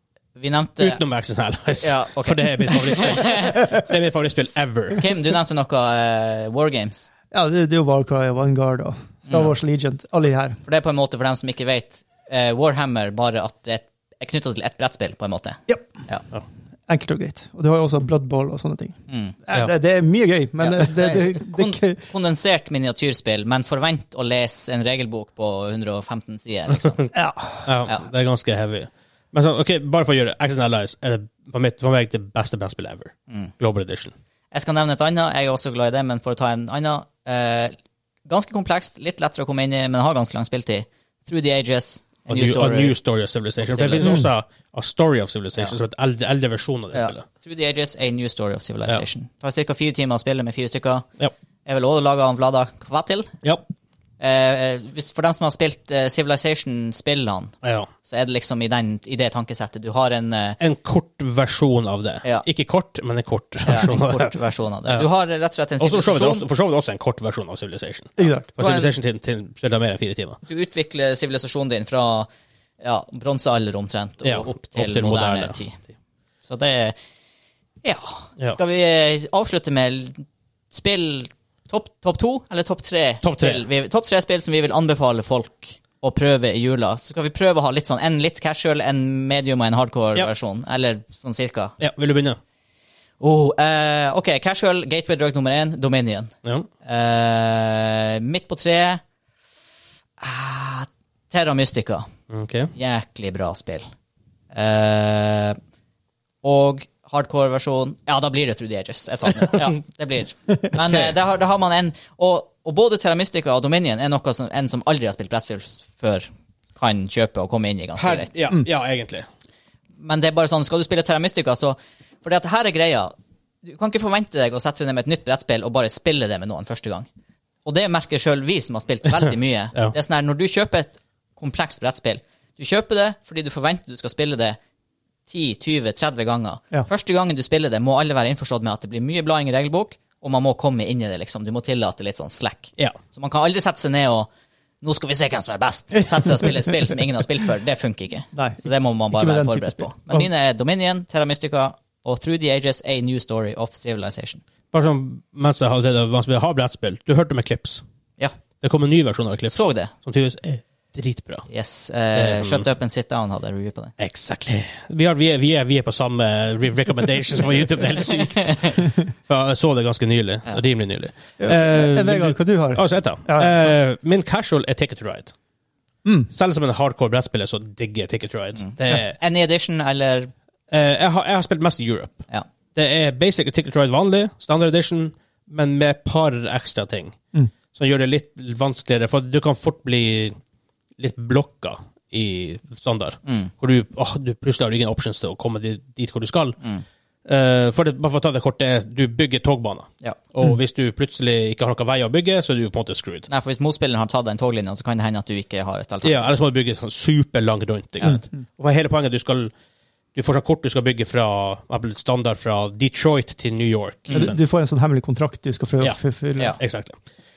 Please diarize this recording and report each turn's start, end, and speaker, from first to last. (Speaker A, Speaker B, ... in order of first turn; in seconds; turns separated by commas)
Speaker A: 0.4-1.0, Speaker B: 0.8-5.0, Speaker A: 1.8-3.6, Speaker A: 5.0-7.1, Speaker C: 7.3-10.6, Speaker A: 9.2-9.6, Speaker A: 10.6-16.2, Speaker C: 16.9-22.0, Speaker A: 19.1-19.4, Speaker A: 20.6-27.1, Speaker C: 27.1-27.7, Speaker B: 27.6-34.1, Speaker A: 34.5-43.0, Speaker B: 42.3-47.2, Speaker A: 43.6-44.3, Speaker C: 44.0-44.3, Speaker A: 46.9-51.0, Speaker A: 51.6-53.3, Speaker A: 54.2-60.6, Speaker B: 57.6-57.9, Speaker B: 60.6-65.1, Speaker A: 63.6-66.5, Speaker B: 65.8-70.4, Speaker C: 68.2-68.9, Speaker A: 70.5-72.3, Speaker A: 72.8-75.8, Speaker B: 74.2-75.6, Speaker A: 76.4-76.9, Speaker A: 77.8-91.7, Speaker B: 83.2-83.7, Speaker B: 91.8-92.4, Speaker A: 93.2-96.3, Speaker A: 96.8-99.0, Speaker A: 100.2-102.1, Speaker B: 102.3-102.7, Speaker A: 102.7-103.9, Speaker A: 104.5-105.5, Speaker A: 106.4-118.3, Speaker B: 110.8-111.2, Speaker B: 118.0-119.2, Speaker A: 120.0-127.1, Speaker A: 127.6-134.6, Speaker A: 135.3-144.3, Speaker A: 144.8-154.4, Speaker C: 148.3-150.3, Speaker B: 154.7-157.8, Speaker B: 158.6-161.5, Speaker A: 159.5-159.9, Speaker A: 161.5-163.9, Speaker B: 162.1-162.7, Speaker B: 164.0-175.3, Speaker A: 168.0-168.8, Speaker C: 171.4-173.7, Speaker C: 176.0-176.3, Speaker B: 176.3-179.2, Speaker A: 178.6-180.3, Speaker B: 180.7-182.2, Speaker B: 182.7-187.2, Speaker B: 187.7-190.3, Speaker B: 191.0-196.6, Speaker A: 193.2-193.5, Speaker B: 197.3-203.3, Speaker A: 203.3-206.3, Speaker B: 206.0-209.5, Speaker C: 208.0-208.4, Speaker B: 210.1-214.4, Speaker C: 214.1-216.6, Speaker B: 216.6-217.0